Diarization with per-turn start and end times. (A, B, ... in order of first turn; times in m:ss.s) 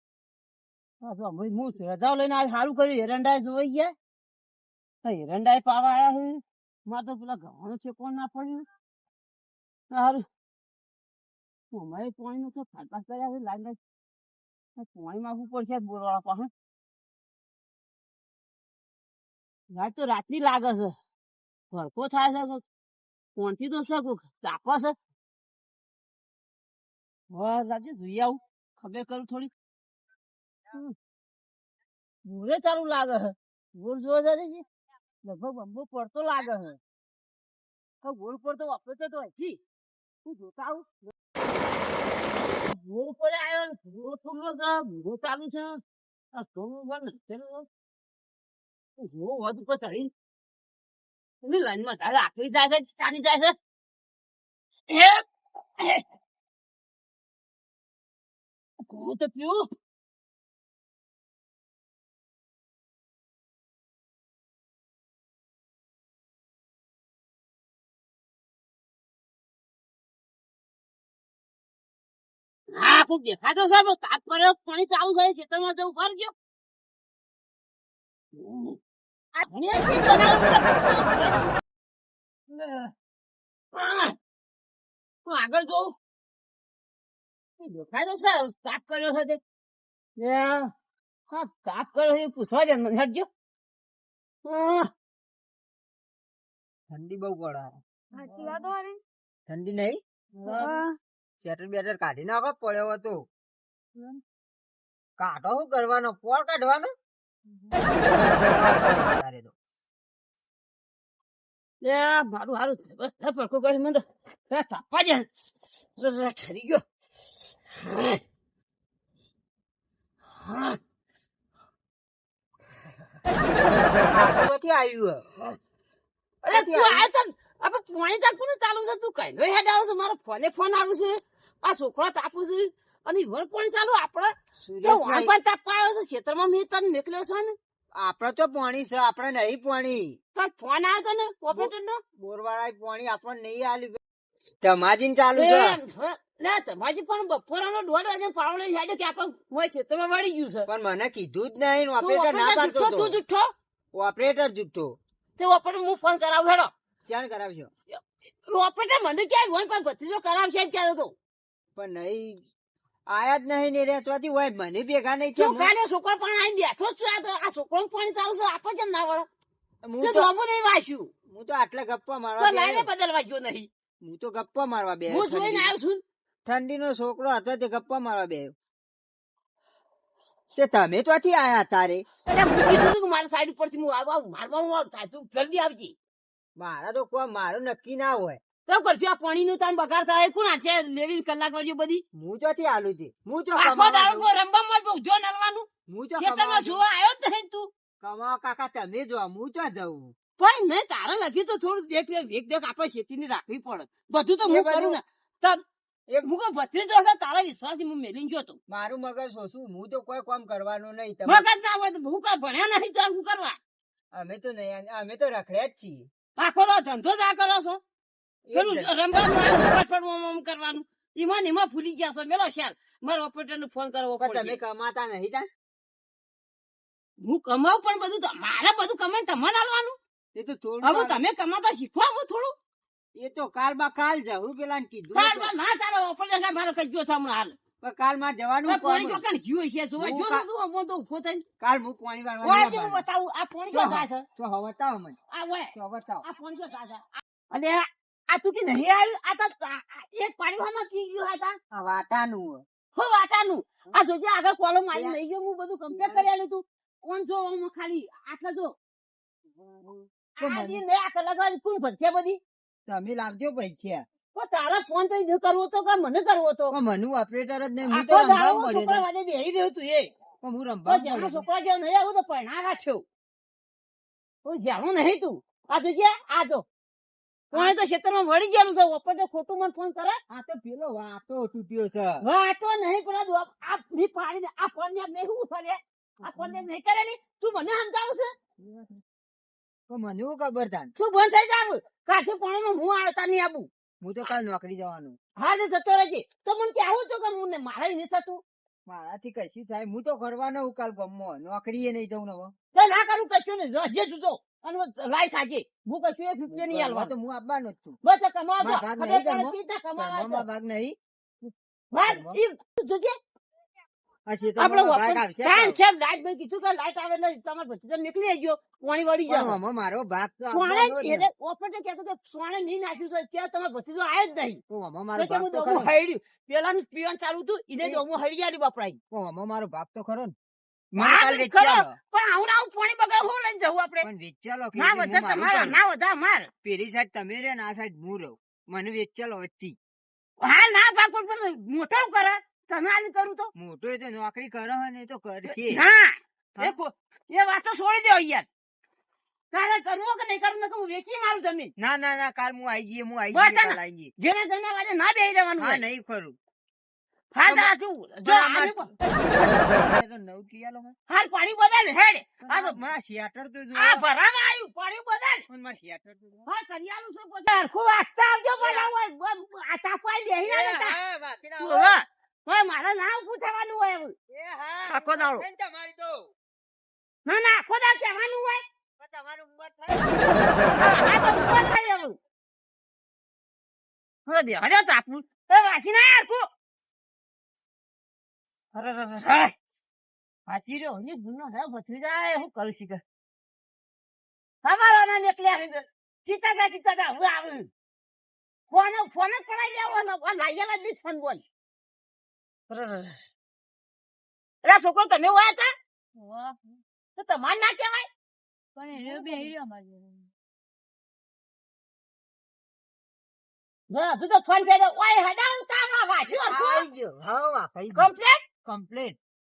0:01.0-0:03.9 A
0:05.0-0:08.6 A
0:09.9-0:10.2 A
0:11.7-0:13.8 A
0:14.8-0:16.5 A
0:19.7-0:20.9 A
0:21.7-0:22.6 A
0:23.4-0:25.0 A
0:27.3-0:29.5 A
0:32.2-0:34.6 A
0:35.2-0:36.8 A
0:38.0-0:39.6 A
0:40.2-0:40.9 A
0:42.7-0:45.8 A
0:46.3-0:47.7 A
0:49.0-0:50.1 A
0:51.4-0:53.6 A
0:54.9-0:55.2 A
0:55.8-0:56.0 A
0:58.8-0:59.7 A
1:12.8-1:16.3 A
1:18.3-1:18.8 A
1:19.4-1:21.5 A
1:22.5-1:22.9 A
1:23.7-1:24.2 A
1:25.2-1:26.0 A
1:27.6-1:29.4 A
1:30.2-1:30.7 A
1:31.3-1:33.3 A
1:34.4-1:34.9 A
1:36.9-1:37.8 B
1:38.3-1:38.9 C
1:38.3-1:38.7 A
1:39.5-1:40.0 B
1:40.4-1:40.8 A
1:40.5-1:40.8 C
1:41.4-1:43.2 B
1:45.2-1:46.9 B
1:47.8-1:49.6 B
1:51.8-1:55.3 A
1:56.0-1:56.8 A
1:57.7-1:58.2 A
2:00.4-2:00.8 A
2:04.1-2:05.2 B
2:06.4-2:17.6 A
2:06.5-2:07.1 B
2:14.6-2:15.3 B
2:18.0-2:20.1 B
2:20.4-2:22.0 A
2:21.5-2:24.0 B
2:24.6-2:25.8 B
2:25.4-2:30.7 A
2:30.7-2:33.2 B
2:32.0-2:33.5 A
2:33.9-2:34.9 B
2:35.4-2:36.7 A
2:37.1-2:37.7 B
2:37.9-2:41.2 A
2:41.8-2:42.4 B
2:43.1-2:45.7 B
2:45.4-2:49.3 A
2:49.8-2:50.3 B
2:50.0-2:51.1 A
2:51.3-2:52.9 B
2:52.4-2:53.7 A
2:54.0-2:55.7 B
2:55.1-2:56.0 A
2:56.4-2:58.5 B
3:00.5-3:02.0 B
3:02.3-3:06.0 A
3:06.6-3:08.4 B
3:08.7-3:12.0 A
3:12.1-3:14.3 B
3:13.6-3:15.7 A
3:15.9-3:16.8 B
3:16.2-3:17.7 A
3:18.0-3:20.1 B
3:20.4-3:25.6 A
3:24.5-3:25.0 B
3:26.2-3:28.6 A
3:28.7-3:31.4 B
3:31.3-3:33.6 A
3:34.2-3:36.1 B
3:36.4-3:37.8 A
3:38.4-3:38.9 B
3:38.5-3:44.6 A
3:44.2-3:45.5 B
3:47.2-3:50.0 A
3:50.4-3:51.2 B
3:50.8-3:52.5 A
3:53.2-3:55.5 B
3:55.1-3:57.6 A
3:57.8-3:59.2 B
3:58.7-4:01.4 A
4:00.0-4:00.5 B
4:01.6-4:03.0 B
4:02.4-4:04.2 A
4:03.7-4:05.2 B
4:05.3-4:05.7 A
4:05.8-4:06.2 B
4:06.2-4:11.6 A
4:11.7-4:12.6 B
4:13.0-4:18.7 A
4:15.9-4:16.3 B
4:19.6-4:20.8 B
4:20.4-4:22.4 A
4:22.9-4:24.0 B
4:24.3-4:26.7 A
4:26.7-4:29.0 B
4:27.9-4:30.1 A
4:30.4-4:31.4 B
4:30.9-4:33.0 A
4:34.4-4:36.6 A
4:37.5-4:40.2 A
4:40.3-4:42.2 B
4:42.2-4:48.3 A
4:46.2-4:46.6 B
4:48.6-4:49.0 B
4:49.9-4:50.9 B
4:51.0-4:53.7 A
4:54.0-4:55.2 B
4:55.4-4:58.4 A
4:58.9-5:02.5 B
5:02.7-5:07.1 A
5:06.5-5:08.0 B
5:08.0-5:10.4 A
5:08.6-5:11.0 B
5:11.9-5:13.2 A
5:12.1-5:12.4 B
5:14.3-5:15.8 B
5:14.6-5:19.6 A
5:19.3-5:21.3 B
5:20.5-5:24.6 A
5:24.7-5:25.9 B
5:25.2-5:29.0 A
5:29.1-5:30.4 B
5:30.9-5:31.9 B
5:31.0-5:34.1 A
5:34.0-5:35.8 B
5:34.8-5:36.5 A
5:36.6-5:39.8 B
5:40.4-5:43.5 A
5:43.6-5:45.8 B
5:45.5-5:48.5 A
5:49.5-5:51.7 A
5:51.8-5:54.1 B
5:53.3-5:55.8 A
5:55.6-5:56.4 B
5:57.3-5:58.9 A
5:57.5-5:57.7 B
5:58.2-6:01.0 B
6:01.1-6:02.8 A
6:02.5-6:04.0 B
6:03.8-6:05.4 A
6:05.5-6:06.5 B
6:06.5-6:11.0 A
6:08.6-6:08.9 B
6:10.4-6:11.9 B
6:11.6-6:14.1 A
6:14.3-6:16.3 B
6:14.9-6:15.4 A
6:17.2-6:18.6 A
6:19.0-6:20.7 B
6:20.8-6:22.2 A
6:24.3-6:26.5 A
6:28.7-6:29.5 A
6:30.5-6:33.0 A
6:34.6-6:37.7 A
6:38.7-6:41.4 A
6:42.7-6:43.3 A
6:44.6-6:45.7 A
6:46.2-6:46.8 C
6:47.2-6:48.1 A
6:48.8-6:50.3 C
6:48.9-6:49.5 A
6:53.9-6:56.9 A
6:56.5-6:58.1 B
6:58.0-6:58.4 A
6:58.6-6:59.2 B